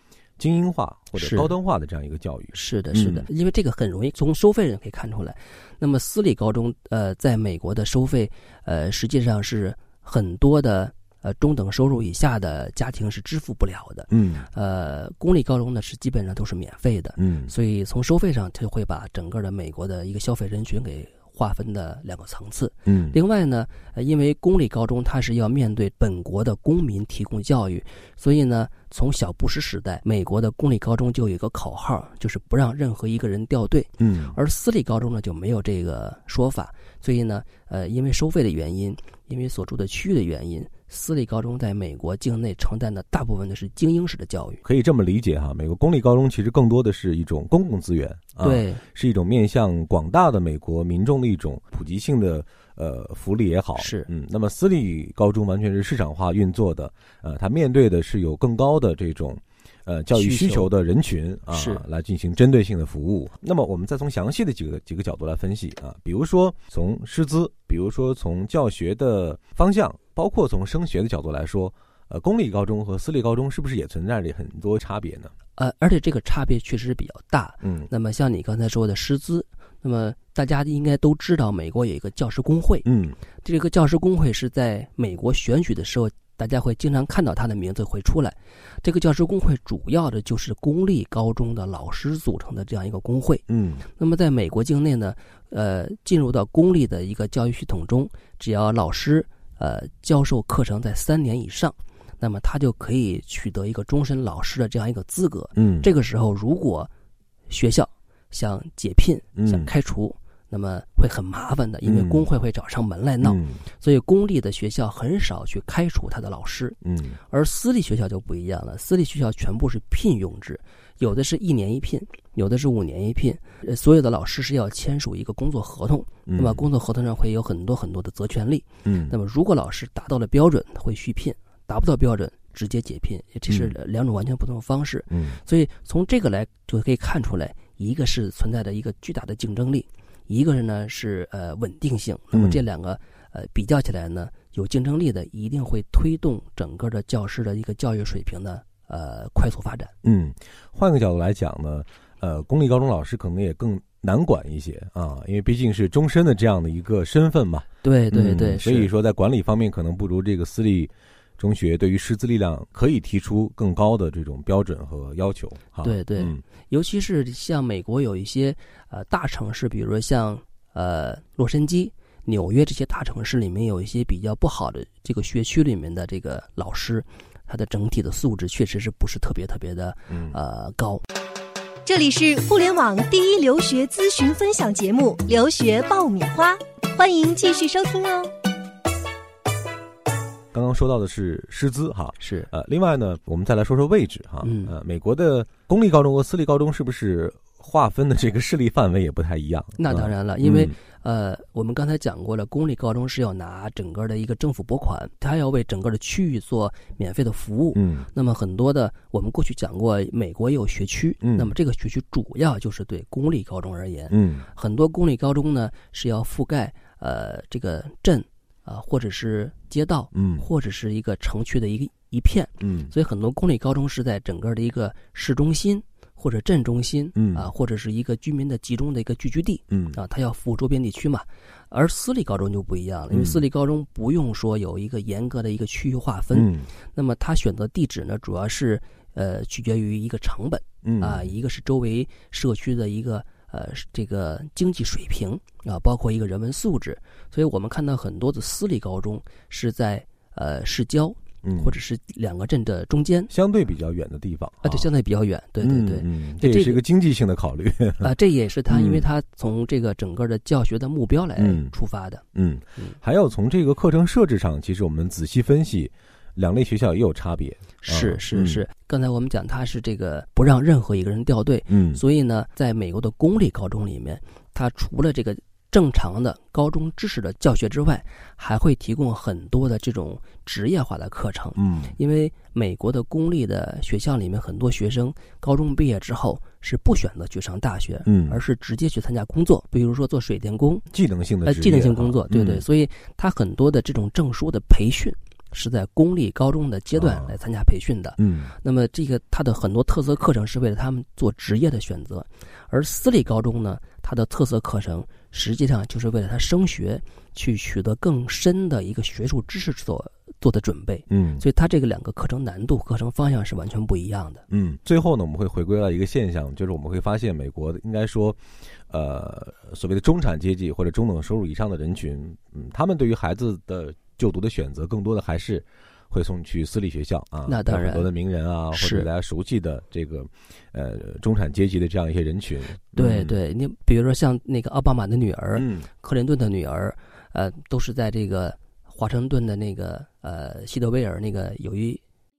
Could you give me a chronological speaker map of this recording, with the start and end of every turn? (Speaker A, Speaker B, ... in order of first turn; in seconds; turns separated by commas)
Speaker A: 0.4-3.2, Speaker B: 1.2-1.5, Speaker B: 2.5-44.6, Speaker A: 14.1-14.5, Speaker A: 17.2-17.5, Speaker A: 22.9-23.2, Speaker A: 34.0-34.4, Speaker A: 44.6-75.3, Speaker B: 48.4-48.8, Speaker B: 53.8-54.1, Speaker B: 60.1-60.7, Speaker B: 61.5-61.8, Speaker B: 75.6-82.9, Speaker A: 77.6-77.9, Speaker A: 82.9-83.2, Speaker B: 83.4-93.4, Speaker A: 93.5-93.8, Speaker B: 94.0-106.9, Speaker A: 105.6-105.9, Speaker B: 107.5-149.9, Speaker A: 109.4-109.7, Speaker A: 111.8-112.3, Speaker A: 113.2-113.6, Speaker A: 116.8-117.2, Speaker A: 126.3-126.7, Speaker A: 128.8-129.2, Speaker A: 135.1-135.4, Speaker A: 142.3-142.6, Speaker A: 150.0-166.4, Speaker B: 157.8-158.9, Speaker B: 165.8-181.0, Speaker C: 181.8-188.3, Speaker A: 190.5-200.7, Speaker B: 192.2-192.5, Speaker B: 194.4-194.7, Speaker B: 199.8-253.3, Speaker A: 207.8-208.1, Speaker A: 211.2-211.5, Speaker A: 214.1-214.5, Speaker A: 220.1-220.4, Speaker A: 222.6-222.9, Speaker A: 227.2-227.5, Speaker A: 229.7-230.0, Speaker A: 233.1-233.4, Speaker A: 236.3-236.7, Speaker A: 240.8-241.3, Speaker A: 251.4-251.7, Speaker A: 253.3-254.9, Speaker B: 254.6-256.8, Speaker A: 255.6-258.1, Speaker B: 258.0-262.2, Speaker A: 258.7-259.0, Speaker A: 261.4-261.7, Speaker A: 262.4-268.6, Speaker B: 267.8-290.9, Speaker A: 271.7-272.0, Speaker A: 281.6-281.9, Speaker A: 288.1-288.4, Speaker A: 290.9-292.6, Speaker B: 291.4-314.4, Speaker A: 296.9-297.3, Speaker A: 298.2-298.5, Speaker A: 311.1-311.4, Speaker A: 314.5-333.3, Speaker B: 327.5-328.1, Speaker B: 328.7-329.1, Speaker B: 333.0-342.0, Speaker A: 335.6-335.9